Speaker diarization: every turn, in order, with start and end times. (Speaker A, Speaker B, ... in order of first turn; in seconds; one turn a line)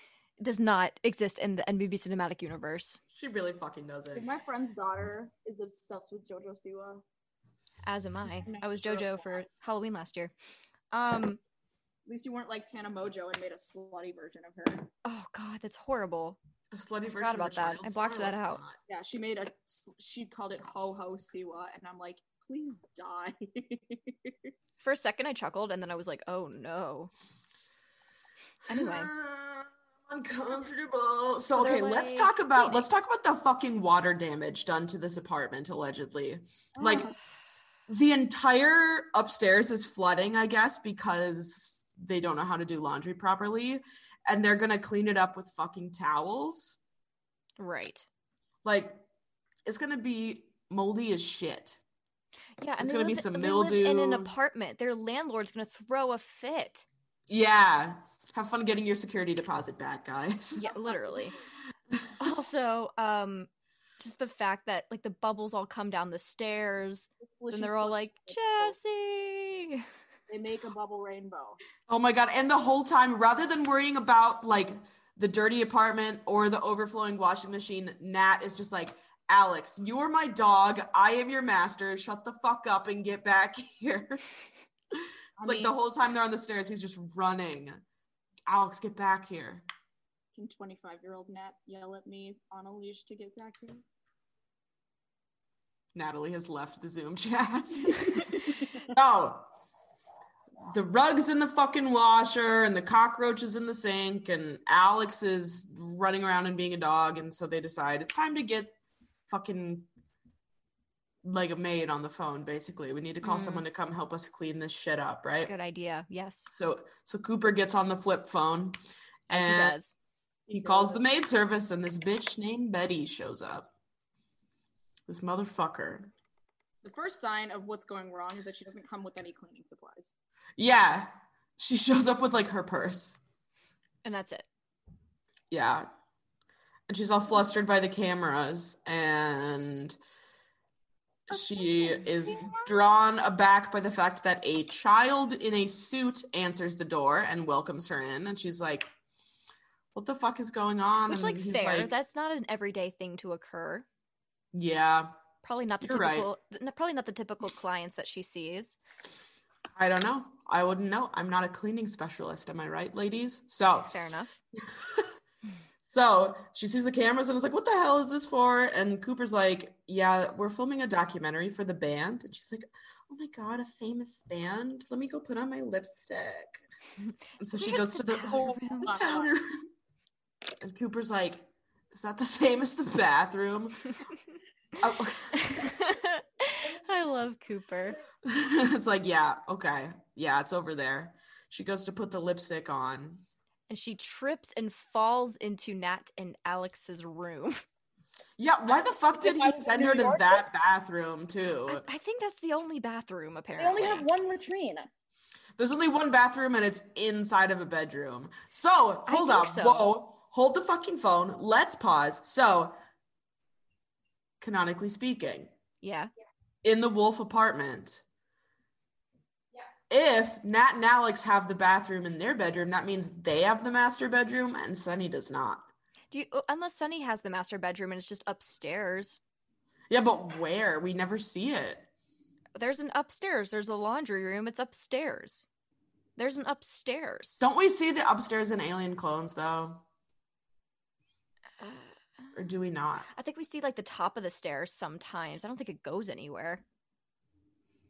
Speaker A: 0.4-3.0
Speaker B: 3.1-4.3
Speaker C: 4.1-7.0
Speaker A: 7.8-10.3
Speaker C: 8.4-9.4
Speaker A: 10.9-11.4
Speaker C: 12.1-14.9
Speaker A: 15.0-16.4
Speaker B: 16.7-18.8
Speaker A: 17.2-18.6
Speaker C: 18.9-24.3
Speaker A: 24.8-27.1
Speaker A: 28.7-29.1
Speaker B: 28.7-37.1
Speaker A: 31.5-32.9
Speaker C: 36.8-37.1
Speaker B: 37.9-46.8
Speaker A: 47.6-48.1
Speaker B: 48.6-49.0
Speaker B: 49.6-51.8
Speaker A: 52.6-56.9
Speaker B: 52.8-54.3
Speaker B: 57.3-60.7
Speaker A: 60.6-61.3
Speaker A: 62.2-69.8
Speaker C: 67.2-68.8
Speaker C: 70.3-71.6
Speaker B: 71.9-84.2
Speaker B: 84.9-87.8
Speaker C: 85.4-85.7
Speaker B: 88.5-89.6
Speaker C: 90.3-93.8
Speaker B: 95.9-99.5
Speaker B: 100.6-108.8
Speaker B: 109.3-109.9
Speaker B: 111.2-115.5
Speaker A: 113.2-113.6
Speaker A: 115.4-116.5
Speaker B: 116.5-118.8
Speaker B: 119.3-119.8
Speaker A: 119.3-120.0
Speaker B: 120.5-123.7
Speaker C: 120.6-121.0
Speaker B: 125.1-126.1
Speaker C: 126.8-130.1
Speaker B: 130.6-133.2
Speaker A: 134.0-134.5
Speaker B: 135.5-135.9
Speaker B: 136.9-139.9
Speaker B: 141.3-148.9
Speaker C: 141.4-142.7
Speaker B: 149.9-151.9
Speaker A: 151.1-153.8
Speaker B: 154.5-155.1
Speaker A: 155.4-158.8
Speaker B: 155.8-156.3
Speaker B: 159.7-163.9
Speaker A: 163.9-164.3
Speaker B: 164.6-165.1
Speaker B: 165.8-176.6
Speaker B: 177.4-179.6
Speaker A: 177.6-179.0
Speaker C: 178.3-179.3
Speaker B: 180.6-183.9
Speaker B: 184.8-185.7
Speaker A: 185.3-188.0
Speaker B: 188.2-193.2
Speaker A: 193.7-197.6
Speaker B: 198.4-201.8
Speaker C: 199.2-200.4
Speaker A: 201.7-204.1
Speaker C: 203.6-204.9
Speaker B: 205.6-212.7
Speaker A: 209.1-209.9
Speaker B: 214.4-215.5
Speaker A: 215.8-216.1
Speaker B: 216.6-218.0
Speaker B: 219.9-225.7
Speaker A: 226.1-229.2
Speaker B: 229.9-231.9
Speaker A: 232.6-235.5
Speaker A: 236.2-237.4
Speaker B: 237.4-239.8
Speaker A: 241.6-241.9
Speaker B: 242.3-243.1
Speaker A: 243.1-246.6